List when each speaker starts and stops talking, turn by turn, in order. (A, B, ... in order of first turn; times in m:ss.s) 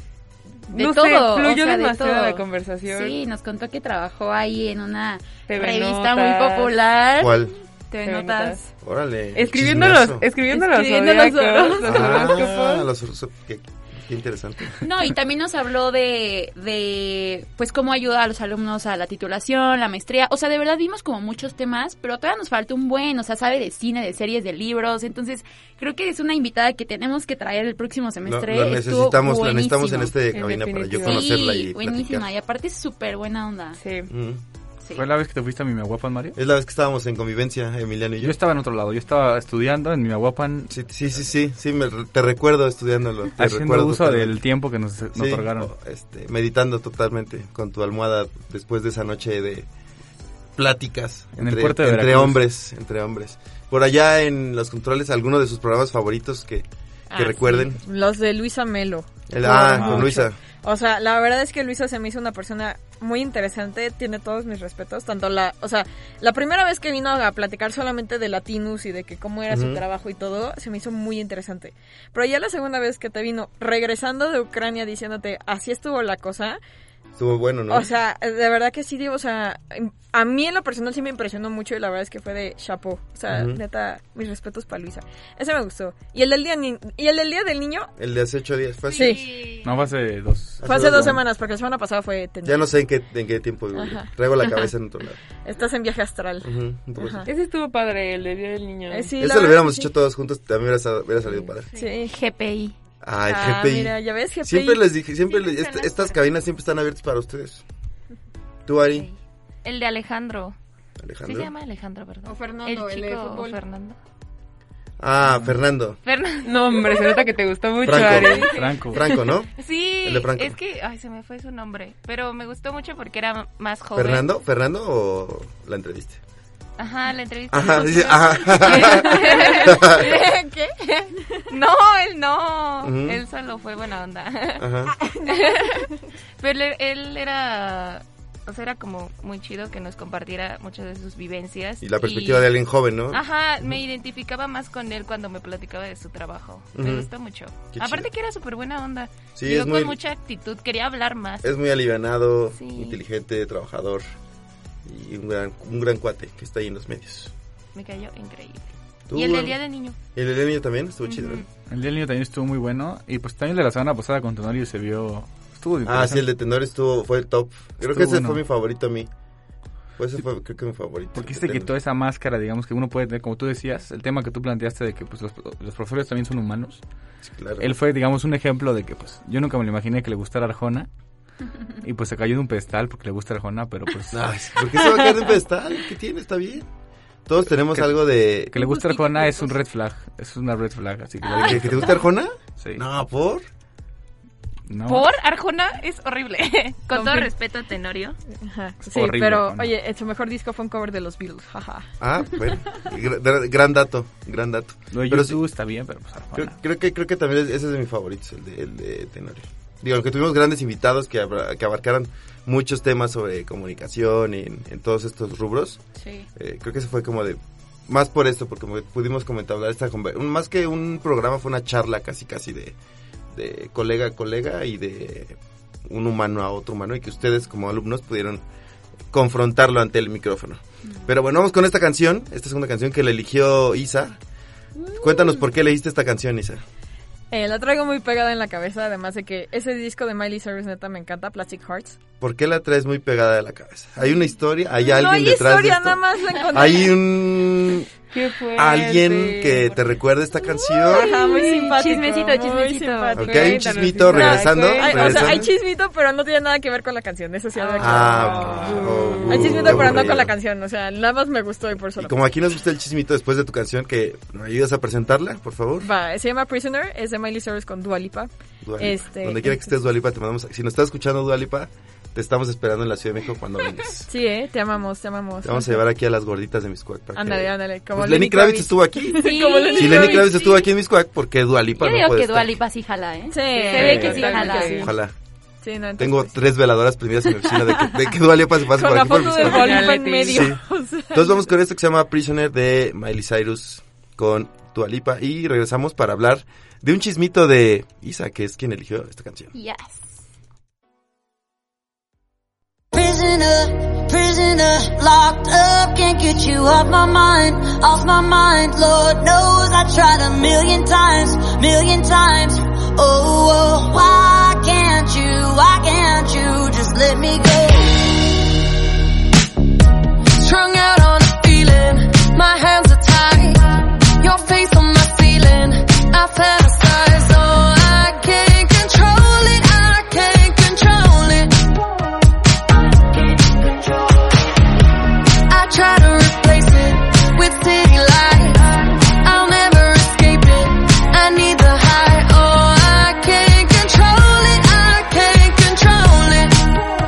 0:00.7-0:03.2 A
0:00.7-0:08.6 B
0:05.5-0:06.8 A
0:07.2-0:07.5 C
0:08.0-0:08.6 A
0:08.8-0:10.2 C
0:09.3-0:12.9 A
0:10.5-0:12.5 B
0:11.8-0:14.8 C
0:14.8-0:30.1 B
0:28.2-0:32.3 C
0:30.3-0:31.3 A
0:31.0-0:33.8 B
0:33.8-0:34.1 A
0:34.1-0:34.4 C
0:34.9-0:36.4 D
0:36.4-0:38.4 C
0:38.2-0:40.7 D
0:40.7-0:44.4 C
0:43.4-0:45.7 D
0:45.1-0:49.7 C
0:50.6-0:57.8 C
0:51.4-0:52.4 D
0:57.1-1:16.6 E
0:59.3-1:00.4 C
0:59.7-1:00.1 D
1:09.5-1:09.8 C
1:17.2-1:17.9 C
1:17.7-1:27.9 E
1:23.3-1:23.6 C
1:28.0-1:29.4 C
1:28.8-1:29.7 F
1:28.9-1:29.4 E
1:29.6-1:30.7 D
1:30.6-1:31.2 C
1:30.6-1:32.7 E
1:32.4-1:35.2 C
1:33.7-1:34.1 E
1:35.4-1:37.3 E
1:36.4-1:37.3 C
1:37.2-1:39.2 A
1:38.9-1:39.9 E
1:39.2-1:41.7 C
1:41.8-1:42.2 E
1:42.0-1:42.7 B
1:43.0-1:47.6 C
1:43.3-1:44.8 E
1:45.3-1:46.2 F
1:48.6-1:49.1 C
1:48.9-1:50.6 F
1:51.0-1:51.5 C
1:51.2-1:54.0 F
1:52.2-1:53.6 E
1:55.0-1:56.0 C
1:55.2-1:55.5 D
1:56.0-1:57.1 F
1:56.4-1:58.7 A
1:57.8-2:00.6 C
1:58.4-1:59.0 D
1:59.6-2:04.3 F
2:03.9-2:06.2 C
2:06.8-2:14.7 F
2:07.5-2:10.1 C
2:08.9-2:10.7 E
2:12.8-2:13.2 C
2:14.6-2:14.9 C
2:15.0-2:15.9 E
2:15.2-2:15.9 F
2:16.4-2:22.5 F
2:21.8-2:23.8 C
2:23.1-2:31.5 F
2:26.7-2:27.1 C
2:27.7-2:28.1 C
2:29.4-2:30.0 C
2:31.4-2:34.1 C
2:32.5-2:33.0 F
2:34.8-2:37.3 C
2:37.7-2:40.0 F
2:39.1-2:39.6 C
2:40.1-2:41.4 C
2:41.0-2:41.4 F
2:41.7-2:46.2 D
2:45.8-2:49.1 C
2:47.8-2:48.4 D
2:50.0-2:51.7 C
2:51.1-2:56.8 D
2:57.2-2:57.7 C
2:57.6-3:00.9 D
3:01.8-3:04.3 D
3:04.1-3:06.7 C
3:07.2-3:08.6 C
3:08.5-3:12.0 D
3:08.7-3:09.5 B
3:11.4-3:13.4 C
3:12.6-3:12.8 D
3:14.7-3:15.1 D
3:14.8-3:18.2 F
3:16.9-3:17.3 E
3:18.4-3:21.9 E
3:18.9-3:19.7 D
3:22.0-3:25.4 C
3:24.9-3:26.5 D
3:26.3-3:35.8 C
3:36.0-3:36.3 B
3:36.4-3:42.8 C
3:43.3-3:48.4 C
3:49.1-3:54.1 C
3:54.9-3:56.6 C
3:57.3-4:02.0 E
4:02.2-4:07.9 C
4:04.8-4:07.0 E
4:08.1-4:10.0 A
4:08.6-4:11.1 C
4:10.8-4:22.2 E
4:10.9-4:13.3 B
4:13.1-4:15.5 C
4:13.2-4:15.5 A
4:17.6-4:19.8 A
4:17.8-4:20.4 C
4:22.0-4:25.9 C
4:25.8-4:29.7 E
4:28.6-4:34.1 C
4:34.1-4:35.8 E
4:35.4-4:42.6 C
4:37.1-4:40.4 E
4:39.2-4:40.6 B
4:41.8-4:44.9 B
4:43.3-4:44.9 E
4:43.5-4:44.9 A
4:44.8-4:45.1 C
4:45.6-4:46.4 E
4:46.0-4:59.5 C
4:48.6-4:51.4 E
4:49.1-4:50.5 A
4:59.5-5:00.2 B
5:02.9-5:18.0 G
5:20.4-5:31.7 H
5:33.3-5:34.3 H
5:35.5-5:46.6 H